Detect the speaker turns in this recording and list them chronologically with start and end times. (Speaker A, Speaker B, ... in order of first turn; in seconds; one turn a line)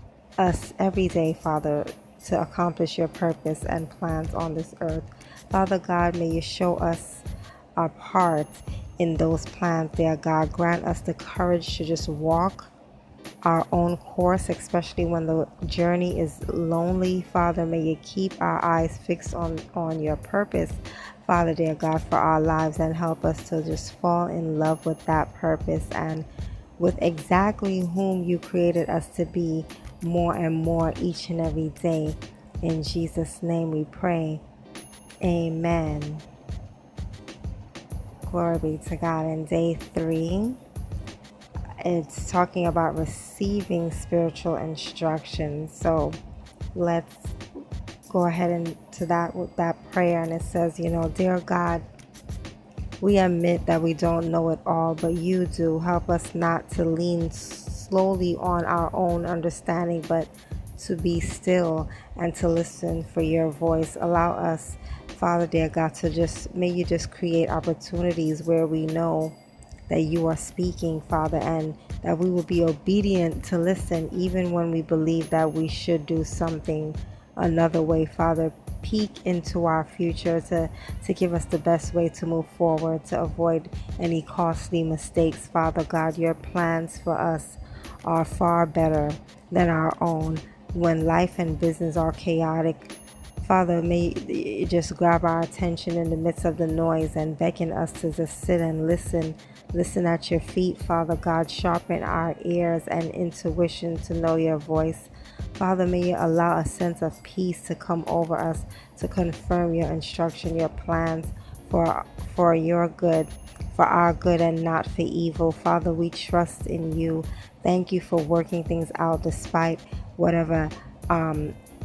Speaker A: 0.4-7.2
Speaker A: 7.8-12.7
Speaker A: 13.4-26.3
Speaker A: 26.8-34.4
Speaker A: 35.2-36.2
Speaker A: 38.3-40.6
Speaker A: 41.8-46.2
Speaker A: 46.7-47.4
Speaker A: 48.1-51.8
Speaker A: 53.0-69.3
Speaker A: 69.9-121.6